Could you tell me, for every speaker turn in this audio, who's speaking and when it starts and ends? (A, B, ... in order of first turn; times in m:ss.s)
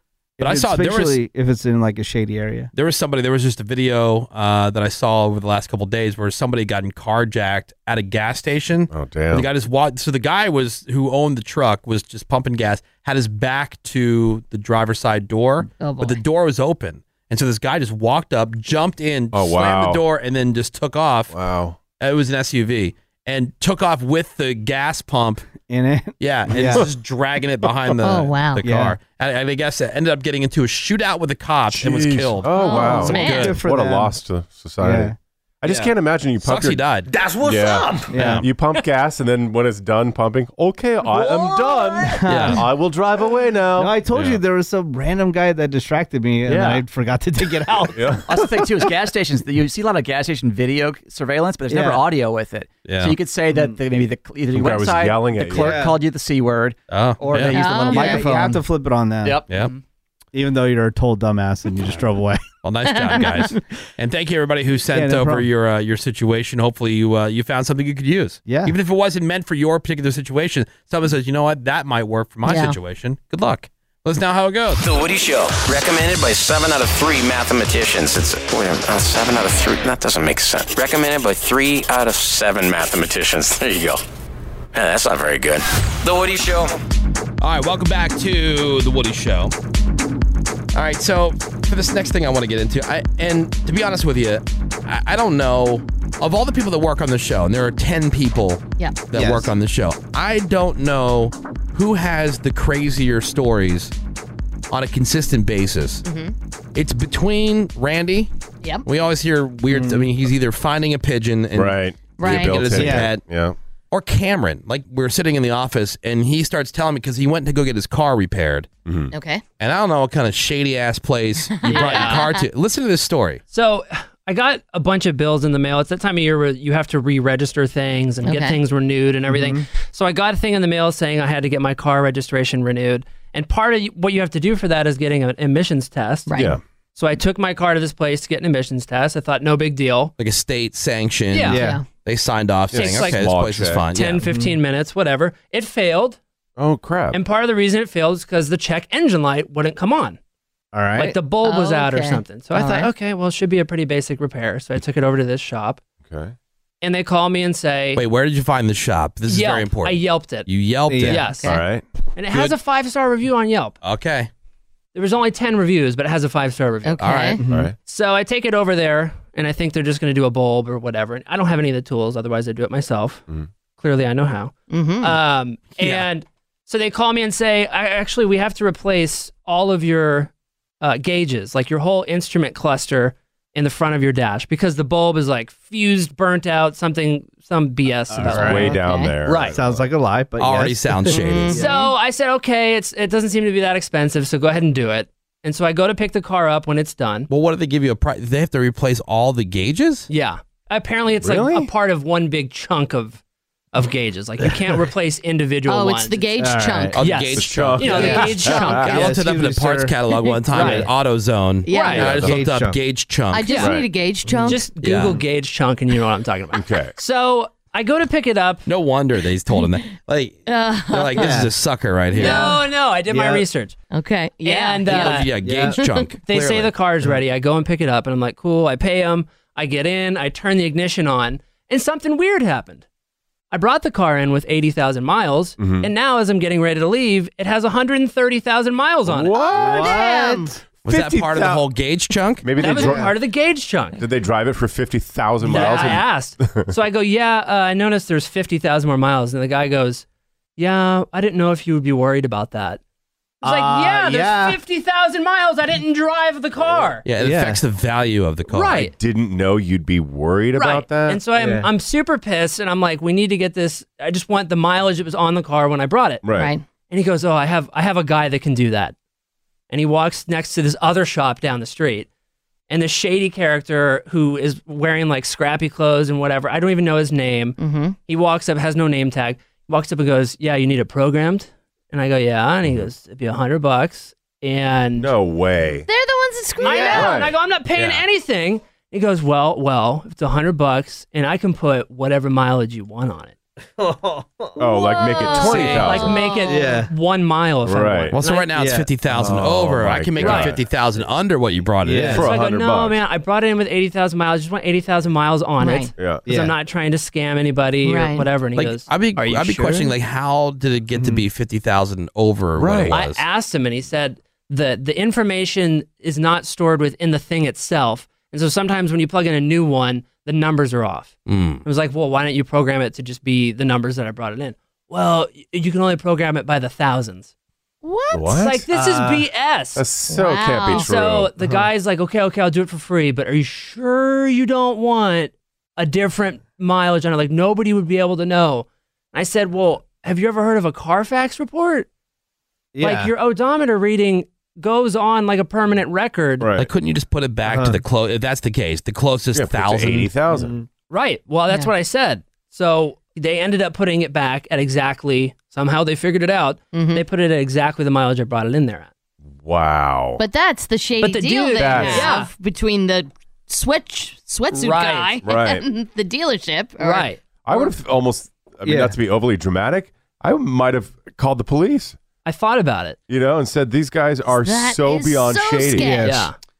0:00.4-0:02.7 A
0:00.4-0:01.2 B
0:02.7-0:21.3 B
0:08.9-0:09.5 C
0:15.8-0:16.2 D
0:19.3-0:20.0 C
0:21.3-0:21.8 C
0:22.0-0:25.4 B
0:25.7-0:26.9 A
0:26.2-0:33.6 B
0:28.0-0:28.6 D
0:28.6-0:29.0 A
0:31.7-0:36.9 C
0:32.5-0:33.5 D
0:33.0-0:34.2 A
0:34.8-0:35.1 A
0:35.7-0:37.1 B
0:37.4-0:44.0 C
0:38.1-0:38.4 A
0:38.1-0:38.4 B
0:41.1-0:41.9 D
0:42.0-0:42.7 A
0:42.3-0:42.6 B
0:43.8-0:48.2 A
0:46.5-0:46.8 E
0:47.9-0:48.9 C
0:48.2-0:58.6 E
0:51.7-0:52.0 A
0:52.8-0:53.2 B
0:53.5-0:53.8 A
0:54.5-0:55.9 C
0:55.5-0:56.0 A
0:56.9-0:57.6 B
0:57.5-0:58.2 D
0:57.8-0:59.4 A
0:59.2-0:59.8 E
1:00.3-1:02.4 A
1:02.6-1:14.8 B
1:02.9-1:03.5 D
1:04.9-1:05.5 A
1:08.4-1:08.7 A
1:12.4-1:12.8 D
1:14.8-1:24.0 F
1:24.7-1:26.7 F
1:27.4-1:29.5 B
1:30.7-1:43.9 B
1:39.1-1:39.5 A
1:44.7-1:46.0 B
1:46.0-1:46.3 D
1:46.7-1:48.3 B
1:48.8-1:53.2 B
1:49.7-1:50.1 A
1:51.5-1:53.6 C
1:52.2-1:52.7 D
1:52.7-1:53.1 A
1:53.9-1:58.7 B
1:58.8-1:59.1 C
1:59.1-1:59.4 D
1:59.6-2:03.4 B
2:01.6-2:02.4 D
2:01.6-2:02.3 G
2:03.5-2:16.3 G
2:08.2-2:08.6 D
2:09.3-2:09.6 A
2:16.2-2:16.6 D
2:16.3-2:16.6 C
2:17.0-2:20.1 G
2:20.2-2:24.2 B
2:21.3-2:21.7 G
2:21.5-2:21.8 A
2:21.5-2:21.8 D
2:22.7-2:23.9 C
2:22.7-2:23.3 G
2:23.9-2:26.2 G
2:24.2-2:24.6 A
2:26.6-2:27.2 C
2:27.1-2:30.2 G
2:30.7-2:31.2 A
2:31.0-2:35.8 G
2:31.4-2:32.9 D
2:36.0-2:36.3 C
2:36.8-2:38.0 G
2:37.9-2:41.3 B
2:39.3-2:40.5 G
2:40.9-2:41.3 A
2:41.0-2:41.6 G
2:41.3-2:41.6 D
2:41.4-2:41.8 C
2:42.2-2:43.8 G
2:43.8-2:44.3 B
2:44.9-2:53.2 G
2:46.8-2:47.4 D
2:47.0-2:47.3 B
2:47.4-2:47.7 A
2:47.4-2:47.7 C
2:53.8-3:09.5 G
2:54.7-2:55.2 D
2:55.8-2:56.1 B
3:08.1-3:08.8 A
3:08.2-3:09.8 C
3:08.6-3:09.2 D
3:09.5-3:11.8 A
3:10.4-3:11.6 B
3:11.1-3:11.9 D
3:11.5-3:17.3 G
3:17.3-3:20.1 B
3:20.1-3:23.2 G
3:21.2-3:21.7 C
3:23.7-3:26.3 G
3:25.7-3:27.0 D
3:26.4-3:27.0 A
3:26.9-3:33.6 B
3:27.0-3:29.2 G
3:27.4-3:29.0 C
3:27.9-3:30.0 A
3:30.5-3:30.9 A
3:30.5-3:30.9 G
3:31.7-3:32.1 D
3:31.7-3:32.1 G
3:31.9-3:32.4 C
3:32.1-3:32.8 A
3:33.3-3:34.7 D
3:33.5-3:33.8 G
3:33.6-3:33.9 C
3:34.3-3:34.6 A
3:34.4-3:38.6 G
3:34.8-3:35.2 B
3:36.5-3:36.9 C
3:38.6-3:42.6 B
3:39.5-3:39.9 D
3:40.4-3:41.4 D
3:41.1-3:41.5 A
3:42.2-3:43.8 G
3:42.2-3:42.6 D
3:42.2-3:43.4 A
3:43.9-3:45.3 D
3:44.4-3:45.3 G
3:44.9-3:46.7 B
3:45.4-3:45.8 A
3:45.8-3:46.0 D
3:46.2-3:52.8 G
3:53.5-3:59.4 G
3:55.6-3:55.9 C
3:59.0-3:59.9 C
3:59.3-4:00.5 D
3:59.5-4:00.6 A
4:00.8-4:02.5 B
4:00.9-4:01.6 C
4:02.4-4:03.2 C
4:02.6-4:04.0 G
4:02.6-4:03.1 A
4:04.0-4:06.7 C
4:05.4-4:10.0 G
4:05.5-4:05.8 A
4:10.6-4:12.8 G
4:13.4-4:17.0 G
4:13.4-4:14.6 A
4:17.0-4:18.9 B
4:17.2-4:17.6 A
4:18.5-4:18.9 G
4:18.9-4:21.2 C
4:20.5-4:26.2 G
4:21.3-4:21.7 A
4:26.2-4:26.5 C
4:26.3-4:26.6 D
4:26.9-4:28.9 G
4:29.7-4:32.1 G
4:32.7-4:45.1 G
4:37.6-4:38.0 D
4:45.0-4:45.9 C
4:45.8-4:47.2 D
4:46.6-4:53.3 G
4:46.6-4:47.1 A
4:46.9-4:47.3 C
4:47.7-4:48.0 B
4:53.8-4:54.6 A
4:54.6-4:56.2 C
4:54.6-4:56.8 D
4:55.4-4:55.8 B
4:55.6-4:58.5 G
4:56.4-4:56.9 A
4:57.6-4:58.2 C
4:58.1-5:02.2 B
4:58.5-4:58.9 A
4:59.1-5:00.6 C
5:00.2-5:00.6 G
5:01.8-5:02.3 A
5:01.9-5:03.0 C
5:02.1-5:09.9 G
5:05.6-5:05.9 D
5:06.0-5:06.2 C
5:06.2-5:06.5 A
5:07.8-5:08.3 D
5:08.5-5:13.2 B
5:10.9-5:11.2 A
5:12.6-5:13.0 C
5:12.9-5:27.3 G
5:21.2-5:21.6 B
5:27.8-5:28.4 D
5:28.1-5:28.7 C
5:28.4-5:29.8 G
5:28.7-5:29.3 A
5:29.7-5:31.4 C
5:30.1-5:31.0 D
5:30.7-5:41.9 G
5:42.7-5:43.1 A
5:42.8-5:46.5 G
5:46.4-5:46.7 C
5:46.6-5:50.1 B
5:47.5-5:47.8 A
5:49.3-5:50.5 C
5:50.3-5:50.6 A
5:50.9-5:58.9 G
5:56.7-5:57.0 D
5:59.3-6:00.2 C
6:00.2-6:07.1 D
6:01.0-6:02.3 G
6:01.6-6:02.1 C
6:04.5-6:05.2 G
6:05.2-6:05.7 C
6:06.8-6:07.7 G
6:07.4-6:12.0 C
6:08.6-6:09.0 A
6:12.2-6:13.0 G
6:13.1-6:16.0 C
6:14.3-6:16.2 D
6:15.8-6:16.3 A
6:16.0-6:16.3 G